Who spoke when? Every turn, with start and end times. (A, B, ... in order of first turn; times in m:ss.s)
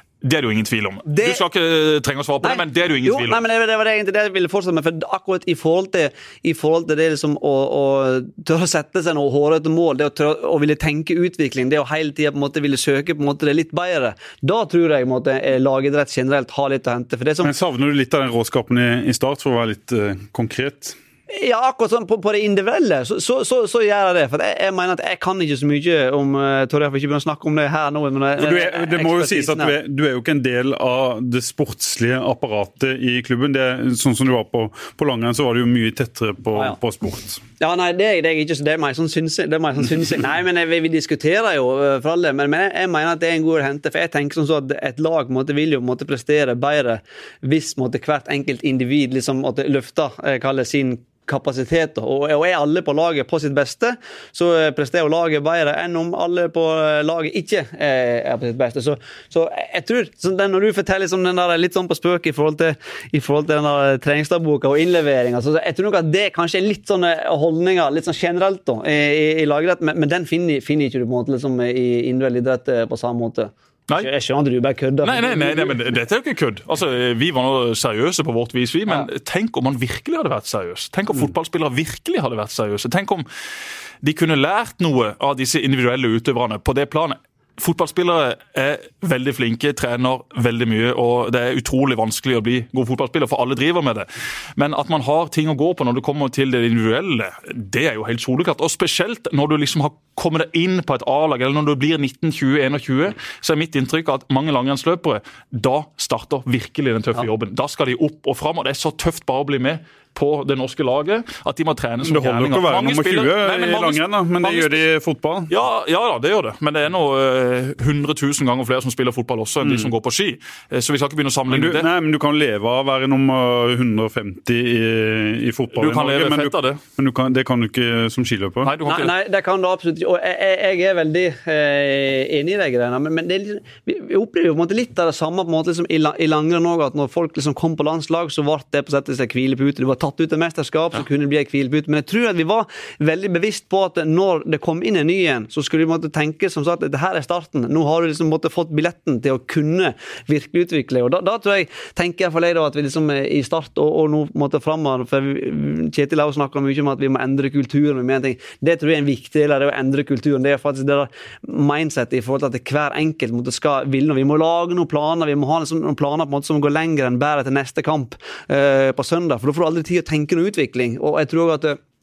0:00.2-0:03.4 A
0:01.0-0:01.4 B
0:02.4-0:17.5 B
0:17.4-0:21.0 C
0:21.3-0:29.7 B
0:28.4-0:37.4 C
0:37.6-1:15.8 B
1:15.0-1:23.2 A
1:24.0-1:54.8 A
1:52.0-1:55.5 C
1:55.5-2:01.9 A
1:59.6-1:59.9 C
2:01.5-2:08.7 C
2:05.7-2:06.8 A
2:08.6-2:09.1 A
2:08.8-2:51.8 B